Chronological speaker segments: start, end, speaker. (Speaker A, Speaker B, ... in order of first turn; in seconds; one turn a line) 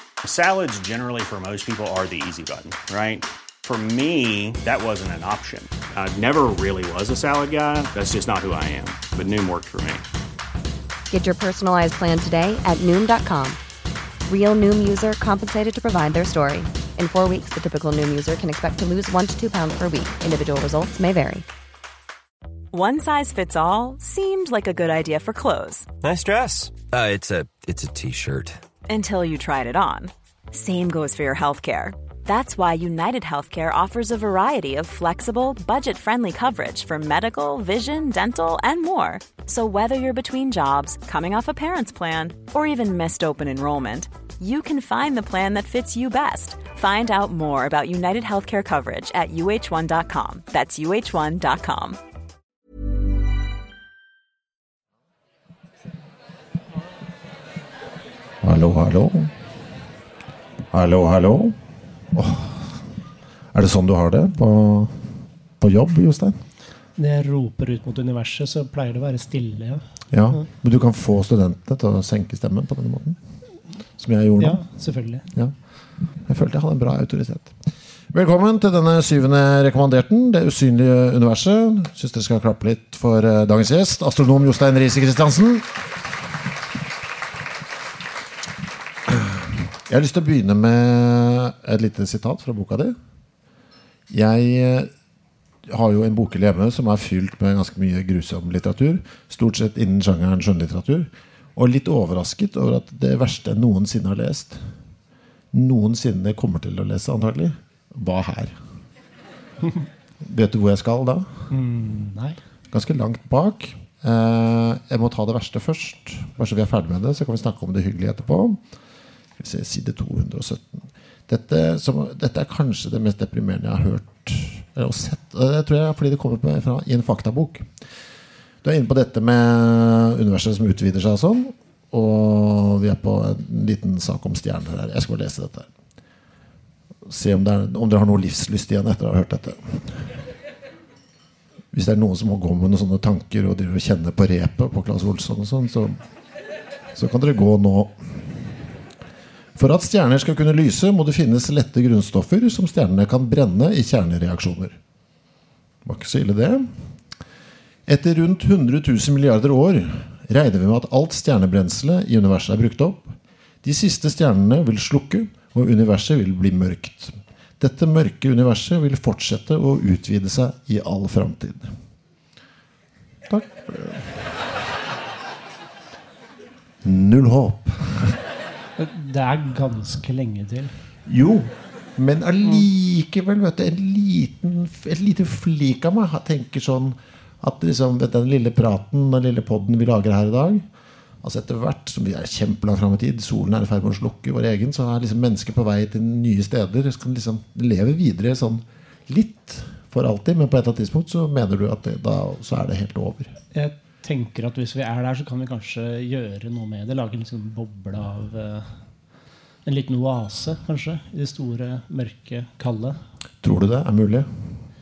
Speaker A: 0.2-10.0
Speaker B: 11.1-13.6
Speaker B: 14.3-21.4
Speaker C: 22.7-25.9
Speaker D: 26.0-28.6
Speaker C: 28.9-52.0
Speaker E: 58.4-59.3
Speaker E: 60.7-61.6
Speaker E: 62.1-62.7
Speaker E: 63.5-66.4
Speaker F: 67.0-69.8
Speaker E: 70.1-73.2
Speaker E: 74.0-74.6
Speaker F: 74.4-75.3
Speaker E: 76.2-77.5
Speaker E: 78.1-85.8
Speaker E: 89.0-93.0
Speaker E: 94.1-94.9
Speaker E: 95.7-104.7
Speaker E: 105.5-108.6
Speaker E: 110.2-111.5
Speaker F: 111.5-112.4
Speaker E: 112.7-118.6
Speaker E: 119.4-127.7
Speaker E: 128.6-135.7
Speaker E: 137.1-140.2
Speaker E: 141.7-146.0
Speaker E: 146.9-148.6
Speaker E: 149.6-154.8
Speaker E: 155.8-156.8
Speaker E: 157.8-171.8
Speaker E: 173.3-174.4
Speaker E: 176.8-178.2
Speaker F: 178.8-180.7
Speaker E: 181.1-190.7
Speaker E: 191.2-203.4
Speaker F: 203.5-208.7
Speaker F: 209.7-213.0
Speaker E: 213.4-214.3